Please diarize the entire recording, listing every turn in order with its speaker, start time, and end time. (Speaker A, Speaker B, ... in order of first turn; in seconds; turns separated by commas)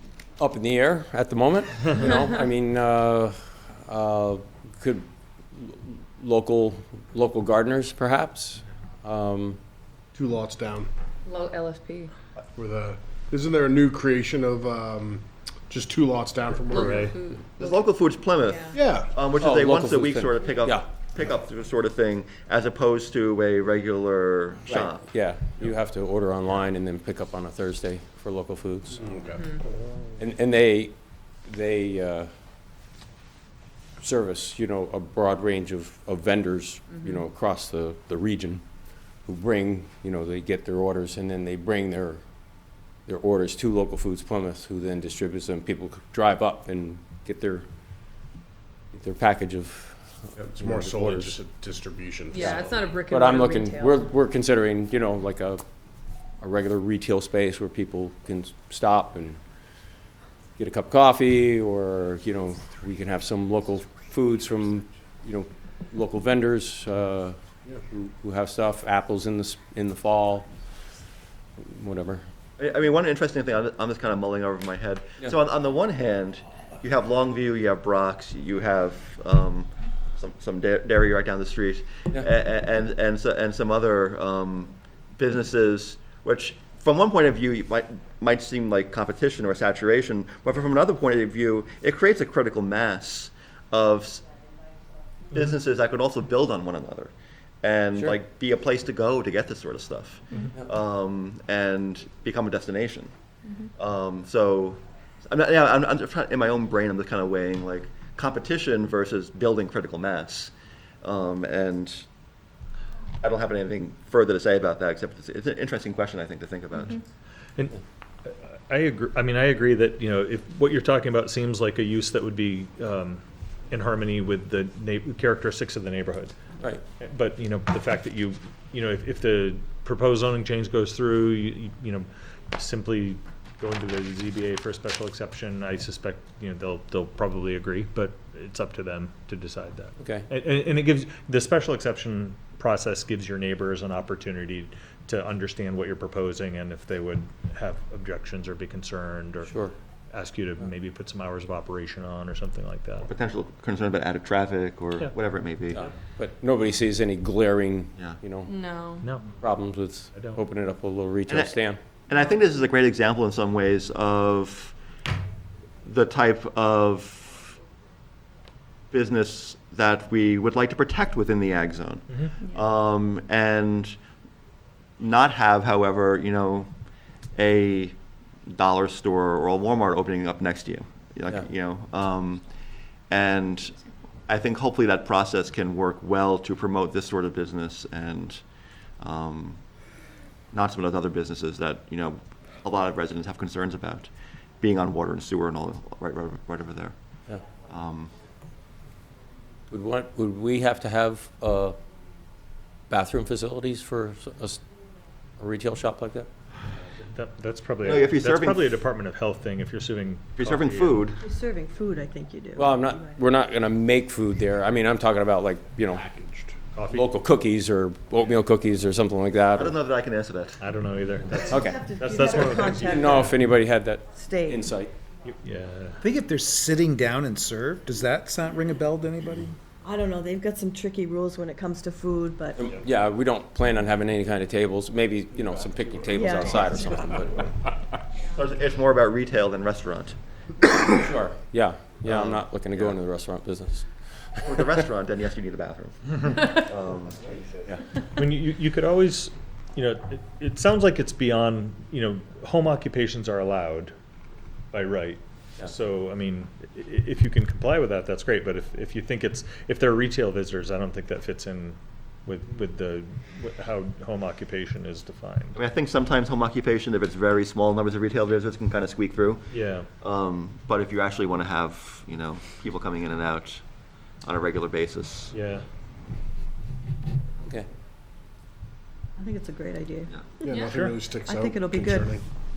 Speaker A: 0.4-9.6, Speaker B: 10.1-10.9, Speaker C: 11.2-12.1, Speaker B: 12.6-17.2, Speaker C: 16.7-17.8, Speaker D: 16.8-17.1, Speaker E: 17.6-25.0, Speaker C: 18.4-18.8, Speaker B: 18.7-19.1, Speaker A: 19.4-20.8, Speaker A: 24.7-29.1, Speaker B: 28.9-29.6, Speaker A: 30.2-32.3, Speaker A: 34.0-38.6, Speaker A: 39.2-42.2, Speaker A: 43.0-47.6, Speaker A: 48.9-50.0, Speaker B: 50.4-52.9, Speaker A: 50.6-51.4, Speaker C: 52.3-54.1, Speaker A: 52.3-55.6, Speaker A: 56.4-59.4, Speaker A: 60.6-67.3, Speaker A: 67.9-70.5, Speaker A: 71.6-72.2, Speaker E: 72.6-94.2, Speaker E: 95.3-97.1, Speaker E: 97.6-103.1, Speaker E: 103.7-110.5, Speaker E: 111.0-112.0, Speaker E: 113.2-117.0, Speaker D: 117.6-126.3, Speaker D: 127.0-149.5, Speaker A: 140.0-140.2, Speaker A: 149.4-149.7, Speaker D: 150.1-153.1, Speaker E: 153.0-155.9, Speaker A: 155.7-158.5, Speaker C: 158.5-159.1, Speaker D: 159.0-159.3, Speaker A: 159.3-161.8, Speaker E: 161.3-161.6, Speaker E: 162.1-164.7, Speaker E: 165.8-167.6, Speaker E: 168.9-174.0, Speaker E: 175.0-176.7, Speaker E: 177.3-177.9, Speaker E: 178.5-182.4, Speaker E: 183.1-188.4, Speaker E: 189.0-189.6, Speaker E: 190.5-194.1, Speaker E: 194.6-196.9, Speaker E: 197.7-198.1, Speaker A: 199.7-201.8, Speaker A: 202.9-204.6, Speaker A: 205.4-206.3, Speaker D: 207.0-211.0, Speaker E: 207.8-208.7, Speaker E: 210.3-211.2, Speaker F: 211.2-213.2, Speaker A: 212.6-216.1, Speaker B: 216.2-216.4, Speaker D: 216.7-217.1, Speaker A: 216.9-219.8, Speaker E: 219.5-220.6, Speaker D: 220.6-223.3, Speaker A: 221.4-221.8, Speaker F: 221.5-223.4, Speaker A: 222.7-224.9, Speaker F: 224.1-224.7, Speaker D: 225.2-226.0, Speaker G: 226.0-229.6, Speaker F: 229.8-232.6, Speaker A: 232.6-237.5, Speaker F: 236.1-237.3, Speaker E: 238.3-240.2, Speaker A: 240.9-244.5, Speaker E: 242.0-242.9, Speaker E: 244.4-247.3, Speaker D: 248.1-253.9, Speaker D: 254.7-265.6, Speaker E: 265.5-269.4, Speaker D: 269.5-269.9, Speaker E: 270.0-273.6, Speaker E: 274.2-275.3, Speaker D: 275.3-275.6, Speaker F: 279.2-280.1, Speaker B: 280.4-282.2, Speaker C: 280.4-280.9, Speaker D: 280.6-281.0, Speaker F: 281.1-282.2